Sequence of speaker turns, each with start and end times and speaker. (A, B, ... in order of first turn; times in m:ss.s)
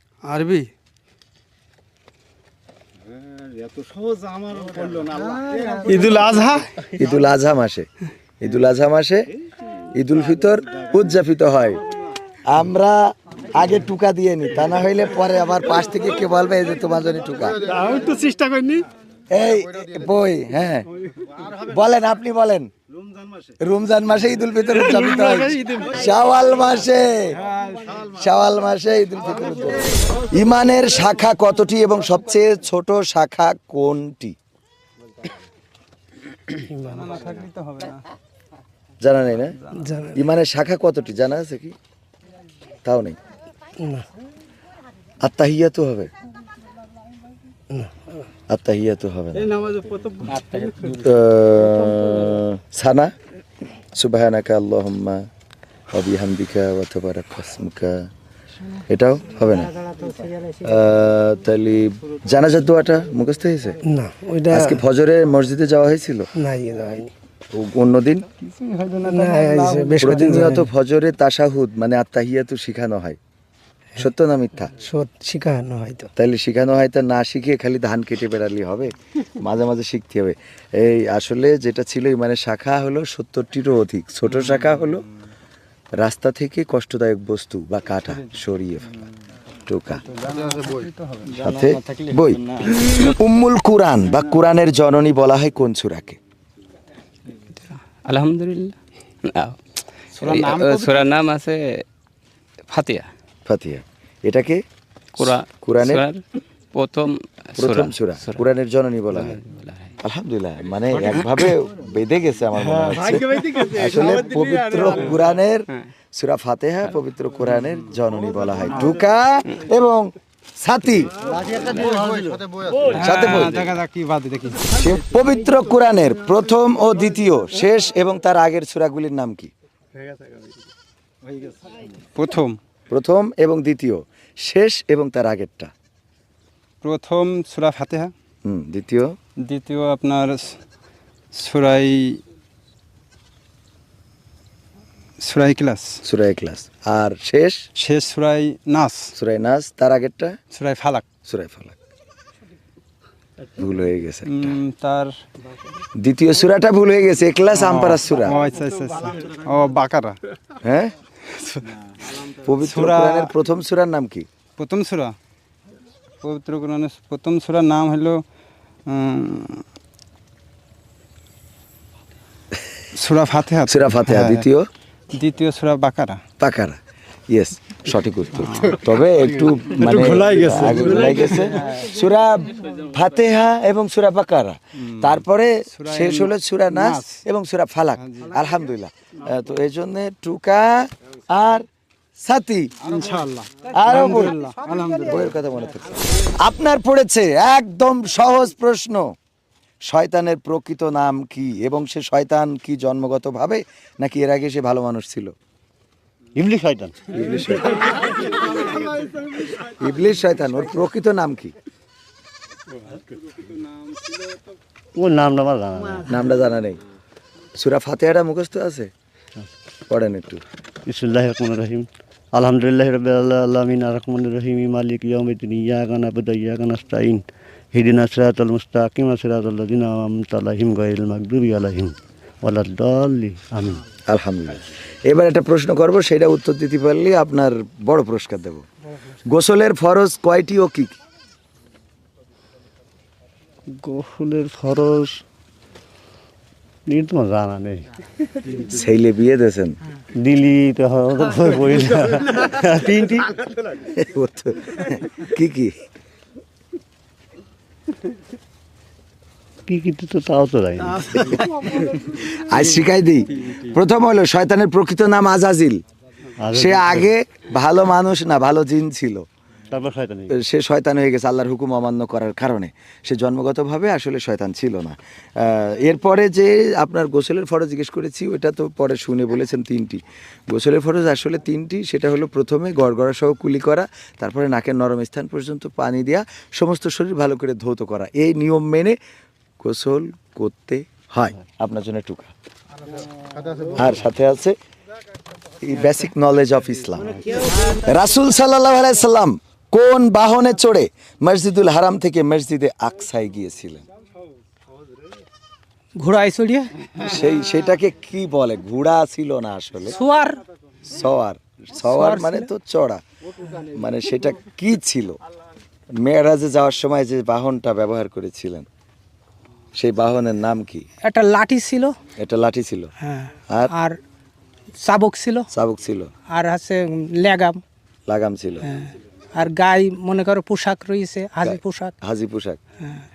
0:00.2-0:00.7 A
0:05.2-0:06.7 A
0:07.0-0:07.9 B
0:08.4-0:09.3 B
0:09.9-0:11.8 B
0:12.4-0:17.6 B
0:17.7-0:18.8 A
0:19.3-0:20.9 B
0:21.6-0:22.7 B
0:23.6-0:27.4 B
0:24.9-0:25.8 A
0:27.6-0:27.8 A
0:28.0-0:34.4 B
0:36.7-0:38.0 A
0:39.0-0:41.8 B
0:42.8-0:43.2 B
0:45.2-0:46.1 B
0:48.5-0:49.5 B
0:50.8-0:53.1 B
0:53.9-0:55.3 B
0:55.9-0:58.1 B
0:58.8-0:59.7 B
1:00.6-1:03.8 B
1:04.2-1:04.6 C
1:04.4-1:06.3 B
1:06.4-1:07.0 C
1:07.5-1:08.2 B
1:08.6-1:10.4 A
1:09.1-1:10.6 C
1:10.0-1:13.2 B
1:14.0-1:14.7 B
1:14.8-1:16.1 C
1:16.2-1:25.0 B
1:26.0-1:29.0 B
1:29.6-1:30.0 B
1:30.1-1:31.2 A
1:31.4-1:36.2 B
1:38.0-1:39.6 D
1:40.2-1:41.1 A
1:40.2-1:41.8 D
1:42.7-1:43.1 D
1:43.4-1:44.6 B
1:45.2-1:46.2 D
1:45.2-1:46.0 B
1:46.7-1:48.4 D
1:47.6-1:49.4 B
1:49.2-1:49.9 D
1:50.0-2:01.1 B
1:53.1-1:54.4 A
2:02.8-2:04.7 A
2:03.0-2:03.7 B
2:04.7-2:09.5 B
2:12.2-2:12.6 A
2:12.9-2:15.7 B
2:16.8-2:18.1 A
2:18.4-2:19.2 B
2:19.4-2:20.6 A
2:21.3-2:22.2 A
2:25.2-2:26.0 A
2:26.0-2:27.6 B
2:27.8-2:29.1 A
2:29.2-2:30.4 B
2:30.5-2:31.0 A
2:31.2-2:31.7 B
2:33.6-2:34.5 B
2:34.2-2:35.1 A
2:36.0-2:38.4 B
2:37.5-2:40.2 A
2:40.6-2:40.9 B
2:41.2-2:41.8 A
2:42.3-2:44.2 B
2:42.6-2:43.3 A
2:44.6-2:45.1 A
2:46.2-2:48.2 A
2:48.8-2:49.6 A
2:52.9-2:54.4 A
2:53.7-2:54.6 B
2:55.1-2:56.2 A
2:56.4-2:56.8 B
2:57.3-3:11.7 B
2:58.4-3:01.8 A
3:04.9-3:05.2 A
3:05.7-3:07.2 A
3:08.0-3:08.3 A
3:12.2-3:12.7 B
3:12.8-3:15.2 A
3:13.7-3:14.4 B
3:15.0-3:19.1 B
3:19.9-3:25.3 B
3:26.4-3:27.0 E
3:27.1-3:28.7 B
3:29.4-3:31.5 B
3:35.0-3:36.1 E
3:36.1-3:36.8 B
3:37.6-3:38.9 B
3:39.9-3:40.4 B
3:40.8-3:53.8 E
3:54.1-3:58.6 B
3:59.2-4:00.9 B
4:03.8-4:05.2 E
4:06.9-4:07.9 E
4:08.6-4:09.8 B
4:10.2-4:13.3 E
4:13.9-4:15.7 B
4:19.7-4:21.7 E
4:22.1-4:25.8 B
4:26.4-4:27.1 E
4:26.5-4:29.2 B
4:29.7-4:30.3 E
4:30.3-4:49.0 B
4:49.6-4:52.3 B
4:53.8-4:54.6 B
4:55.6-5:03.8 B
5:06.0-5:06.7 C
5:07.0-5:10.0 B
5:09.9-5:10.4 C
5:10.8-5:13.0 B
5:11.8-5:12.5 C
5:13.6-5:15.2 B
5:16.0-5:18.7 B
5:19.7-5:20.8 B
5:21.0-5:21.9 C
5:22.2-5:22.9 B
5:23.0-5:24.0 C
5:24.8-5:25.5 C
5:25.5-5:26.1 B
5:26.3-5:27.6 C
5:28.1-5:28.7 B
5:28.6-5:31.9 C
5:31.4-5:32.6 B